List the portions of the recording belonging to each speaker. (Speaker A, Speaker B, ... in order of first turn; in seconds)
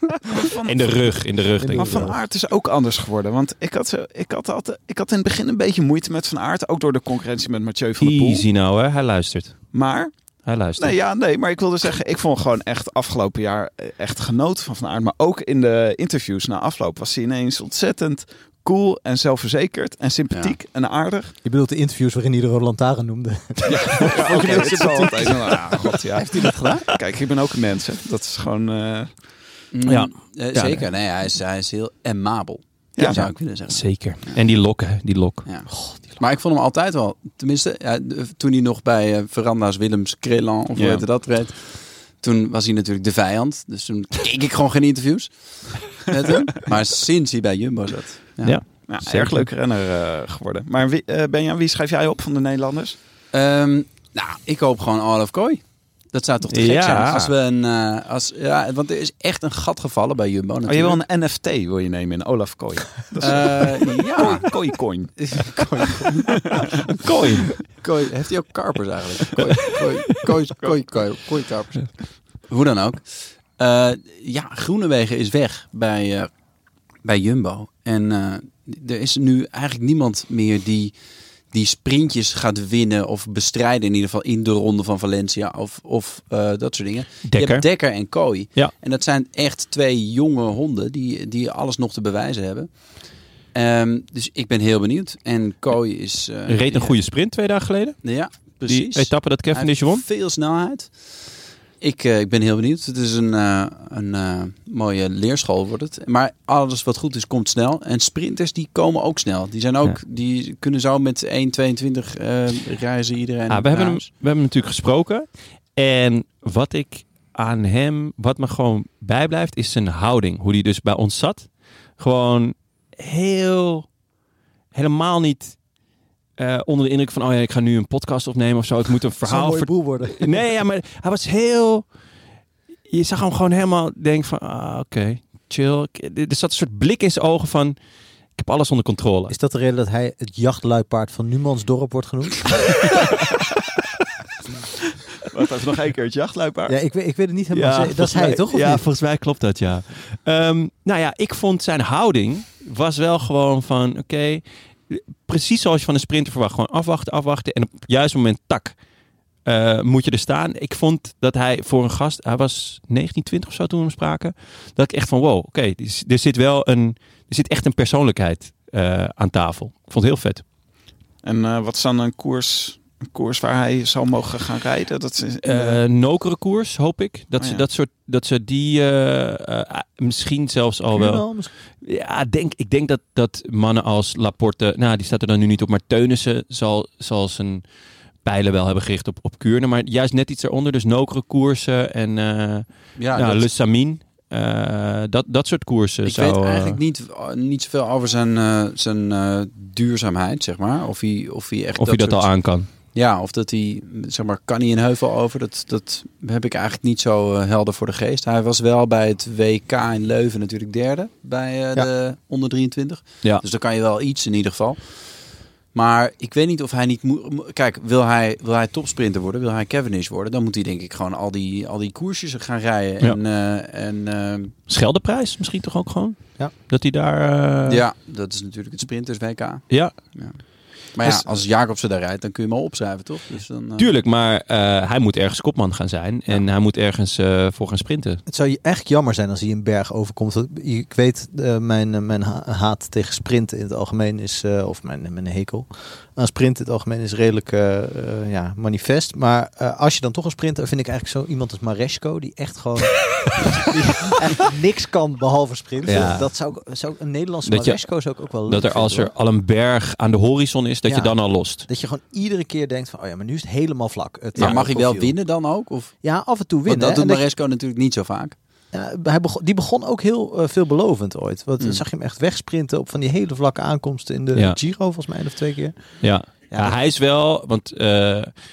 Speaker A: 0.3-8.4, 9.7-10.1, 10.8-21.3, 23.6-29.1, 40.8-41.0, 48.9-53.0, 60.7-65.5, 145.3-146.8, 171.2-175.8
Speaker B: 0.7-2.1, 8.0-9.7, 10.4-10.9, 29.9-30.8, 33.0-35.4, 48.4-49.5, 56.5-57.3, 67.0-67.6, 87.2-87.7, 96.5-100.0, 113.5-123.8, 124.7-125.5, 126.4-131.8, 132.9-137.8, 138.4-139.3, 147.5-158.7, 159.4-170.4, 175.4-181.2, 181.8-187.6, 188.2-196.8, 201.8-202.7, 224.7-227.8, 233.8-238.2, 255.8-256.3, 257.4-261.6, 276.0-278.3
Speaker C: 1.6-2.2, 21.4-25.8, 129.2-130.5, 139.3-142.8, 146.7-148.8, 180.9-181.5, 238.3-259.1, 260.9-265.1, 266.0-267.2, 268.7-276.8
Speaker D: 24.1-25.4, 26.1-26.9, 29.7-34.4, 35.4-48.6, 53.3-61.0, 63.2-64.5, 65.2-66.3, 67.8-76.3, 77.0-81.0, 81.5-97.0, 98.0-101.0, 101.8-114.1, 193.0-193.5, 196.0-224.5, 227.7-233.9, 264.3-265.9, 266.6-268.4